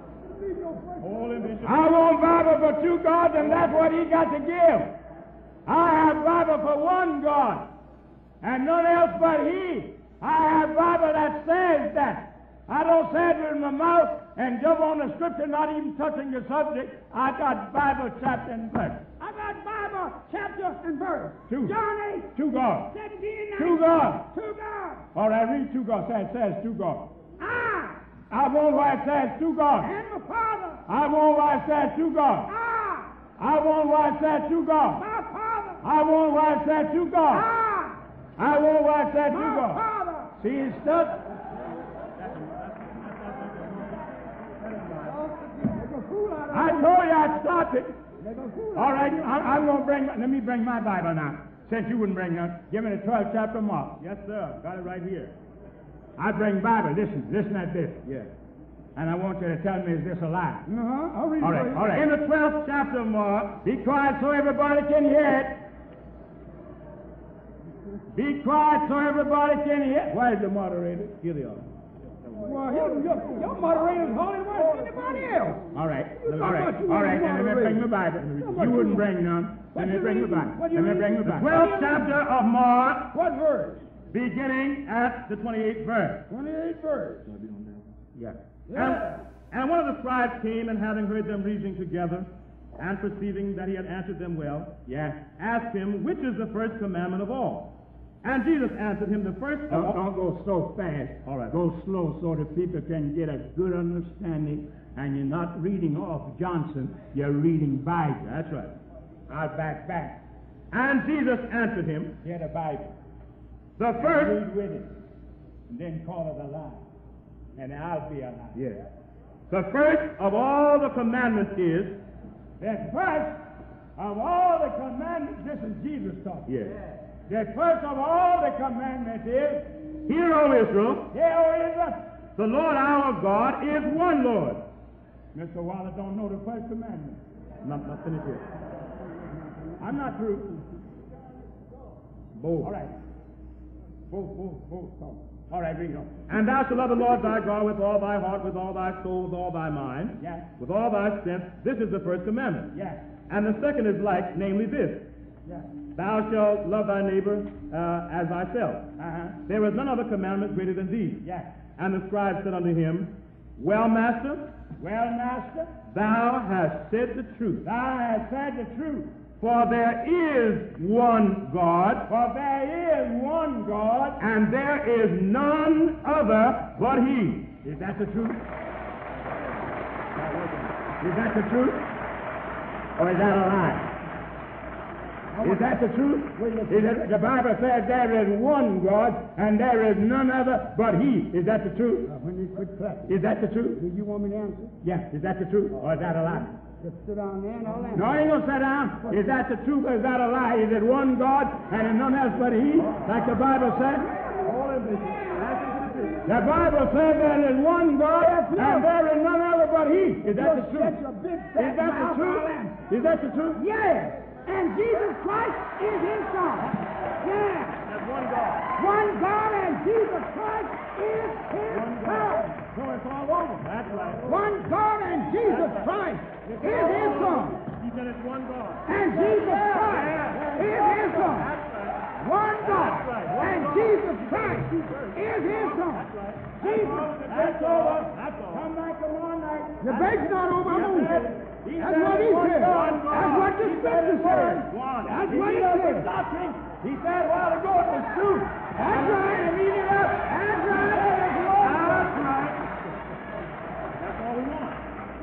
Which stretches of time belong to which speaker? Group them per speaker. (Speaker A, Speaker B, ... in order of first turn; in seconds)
Speaker A: 0.3-1.6, 19.2-22.3, 22.9-25.1, 27.4-28.0, 29.8-30.8, 32.5-33.1, 35.0-35.8, 37.3-38.0, 39.3-40.4, 45.0-46.9, 48.2-49.6, 60.7-61.8, 72.4-75.6, 76.2-79.1, 79.7-82.1, 83.1-83.9, 86.3-87.3, 88.7-89.3, 185.4-185.6, 186.3-187.0, 192.1-193.1, 193.8-194.7, 196.8-198.2, 199.0-199.3, 204.0-205.9, 208.2-208.9, 210.3-212.8, 213.6-217.8, 218.8-222.6, 224.2-227.6, 228.9-231.5, 232.2-236.1, 236.6-237.1, 239.8-241.2, 241.8-246.1, 248.7-249.6, 250.2-251.5
Speaker B: 1.0-1.8, 42.9-43.4, 54.0-55.3, 61.7-63.6, 71.2-71.6, 78.2-78.7, 81.2-83.1, 84.1-86.2, 87.3-87.9, 88.7-94.7, 95.3-97.7, 98.2-100.0, 101.3-101.5, 108.2-108.8, 110.7-112.1, 113.8-114.4, 118.5-118.8, 119.5-122.0, 126.5-126.8, 130.1-131.1, 132.4-134.6, 137.6-138.4, 142.3-142.7, 146.3-152.7, 153.3-155.0, 155.9-158.8, 159.5-161.2, 161.8-164.4, 165.9-167.7, 169.4-172.1, 174.2-177.6, 204.5-206.3, 212.9-213.3, 217.9-218.7, 221.7-224.3, 225.4-225.9, 226.4-228.9, 229.6-238.7, 240.7-241.3, 242.6-243.5, 244.4-245.3, 251.6-252.6, 254.0-254.8
Speaker C: 1.6-4.9, 5.7-7.6, 8.4-19.0, 21.5-21.8, 22.3-22.9, 23.6-24.2, 25.1-27.1, 28.3-29.9, 30.9-32.5, 33.4-35.0, 35.8-37.5, 38.4-39.8, 40.4-41.2, 46.5-48.0, 48.8-54.0, 56.2-58.0, 59.0-60.6, 61.4-62.1, 63.6-65.5, 68.1-71.2, 75.7-81.6, 94.9-95.2, 99.7-108.2, 109.3-110.2, 112.2-112.9, 113.9-114.9, 115.7-116.8, 117.6-118.6, 122.6-123.4, 124.0-126.8, 127.3-129.7, 131.1-132.0, 135.3-137.2, 139.8-140.7, 142.6-142.9, 144.1-146.2, 150.2-150.5, 152.7-153.0, 159.0-159.4, 161.2-161.5, 164.8-165.7, 167.6-169.1, 172.1-174.2, 177.5-178.4, 181.0-181.8, 183.0-183.9, 185.4-192.1, 193.1-193.8, 194.8-196.5, 197.9-204.1, 206.2-211.0, 211.6-213.6, 229.1-230.0, 236.7-244.7, 245.3-252.3